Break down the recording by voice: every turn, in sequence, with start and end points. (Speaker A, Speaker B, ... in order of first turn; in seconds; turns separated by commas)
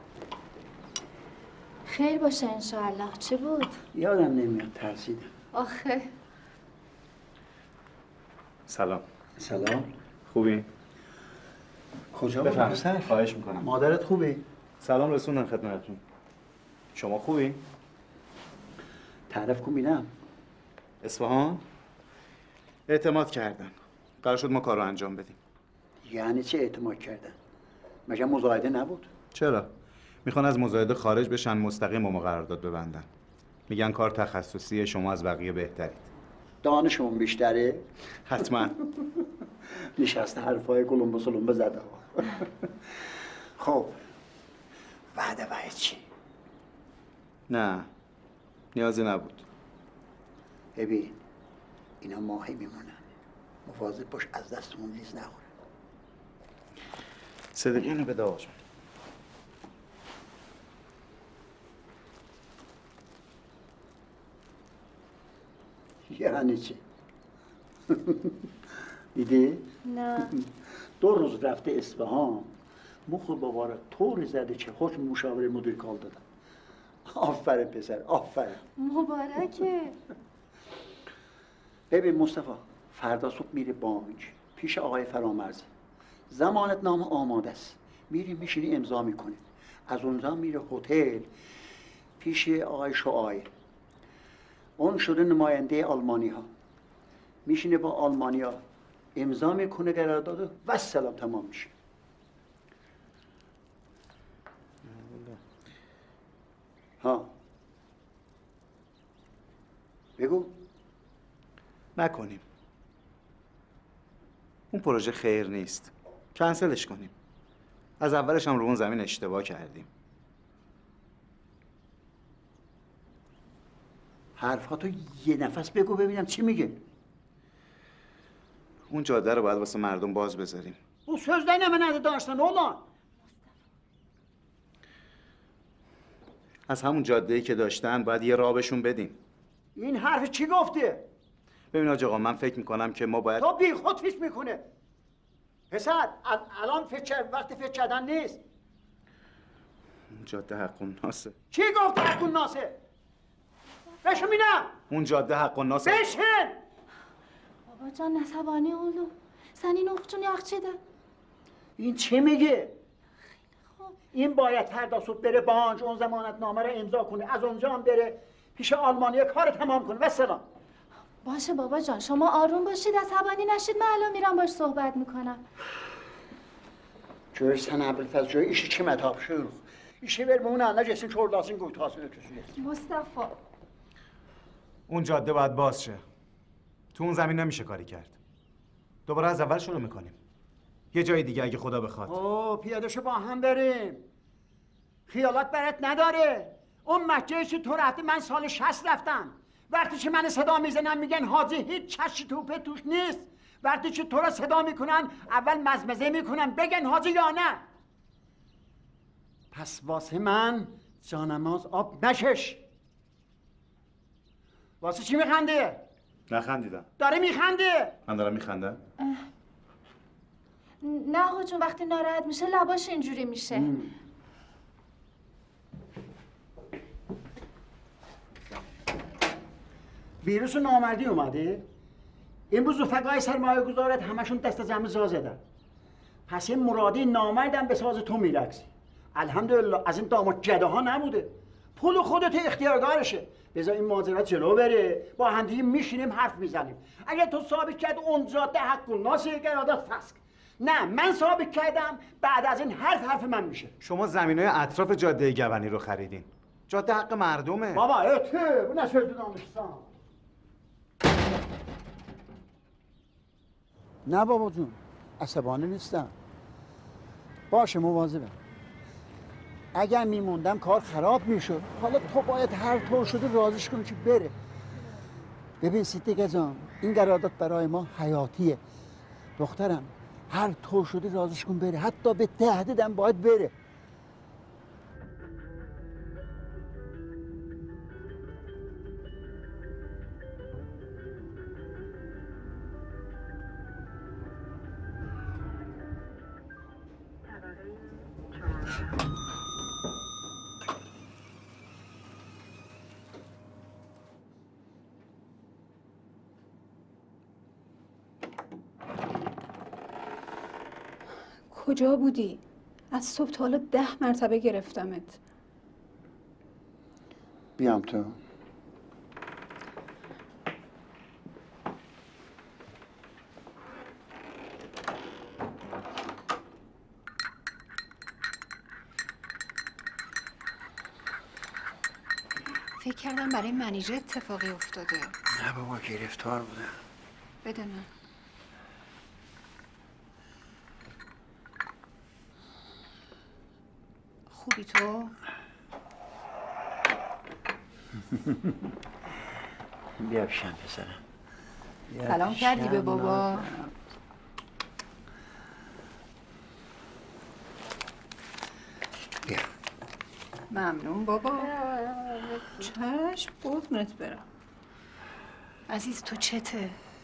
Speaker A: 1.9-3.8, Speaker B: 3.9-5.3, Speaker A: 5.5-6.1, Speaker C: 8.7-9.0, Speaker B: 9.4-9.9, Speaker C: 10.2-10.7, Speaker B: 12.1-14.4, Speaker C: 12.4-13.7, Speaker C: 14.8-16.0, Speaker C: 16.9-17.6, Speaker B: 19.3-20.1, Speaker C: 21.0-21.6, Speaker C: 22.9-25.4, Speaker B: 26.0-27.4, Speaker B: 28.1-29.1, Speaker C: 29.3-29.7, Speaker C: 30.2-33.1, Speaker C: 33.7-36.1, Speaker B: 36.6-37.9, Speaker C: 38.3-38.7, Speaker B: 40.0-42.7, Speaker B: 43.6-43.9, Speaker B: 45.1-46.0, Speaker C: 47.5-47.9, Speaker C: 48.7-49.4, Speaker B: 50.7-51.2, Speaker B: 52.0-53.0, Speaker B: 53.6-55.5, Speaker C: 57.5-58.5, Speaker B: 66.1-66.8, Speaker B: 67.9-68.4, Speaker B: 69.1-70.5, Speaker A: 69.8-70.4, Speaker B: 71.0-72.5, Speaker B: 73.0-76.2, Speaker B: 77.0-78.6, Speaker A: 78.8-80.0, Speaker B: 81.9-85.7, Speaker B: 86.3-91.3, Speaker B: 92.2-93.5, Speaker B: 94.8-96.5, Speaker B: 97.4-98.6, Speaker B: 99.1-101.7, Speaker C: 104.8-105.4, Speaker B: 107.0-107.3, Speaker B: 110.2-110.6, Speaker C: 112.0-112.4, Speaker C: 114.7-117.1, Speaker C: 118.0-119.9, Speaker B: 124.3-126.8, Speaker C: 128.9-130.8, Speaker B: 131.1-132.8, Speaker C: 136.7-139.2, Speaker B: 139.8-141.1, Speaker C: 141.7-143.5, Speaker B: 143.4-144.7, Speaker B: 145.7-148.4, Speaker C: 150.1-151.3, Speaker B: 151.5-152.8, Speaker B: 154.0-154.7, Speaker C: 154.9-156.2, Speaker B: 155.8-156.6, Speaker A: 157.7-160.8, Speaker B: 161.8-162.8, Speaker B: 164.1-170.4, Speaker A: 171.2-175.4, Speaker B: 177.3-182.5, Speaker A: 182.6-183.3, Speaker C: 184.9-186.0, Speaker C: 186.9-188.2, Speaker C: 189.1-190.2, Speaker C: 190.9-192.1, Speaker B: 192.1-194.1, Speaker B: 195.1-207.6, Speaker B: 209.5-212.6, Speaker B: 214.8-215.8, Speaker C: 216.3-216.9, Speaker B: 217.0-217.9, Speaker C: 218.1-218.8, Speaker A: 219.0-219.2, Speaker A: 220.8-223.7, Speaker B: 223.5-223.9, Speaker B: 230.2-231.7, Speaker B: 232.5-235.4, Speaker B: 236.3-253.7, Speaker C: 253.8-257.8, Speaker B: 257.7-259.9, Speaker B: 264.1-266.1, Speaker B: 267.5-268.4, Speaker B: 269.7-274.3, Speaker B: 275.6-278.6, Speaker B: 279.4-283.5, Speaker D: 311.5-312.4, Speaker D: 312.9-315.2, Speaker B: 317.6-318.2, Speaker A: 332.8-334.4, Speaker D: 334.0-335.1, Speaker B: 335.3-336.8, Speaker D: 337.4-337.8, Speaker D: 344.3-345.1, Speaker B: 348.1-348.5, Speaker B: 350.0-351.0, Speaker B: 351.9-353.6, Speaker D: 352.0-353.6, Speaker D: 360.5-364.2, Speaker D: 365.7-366.8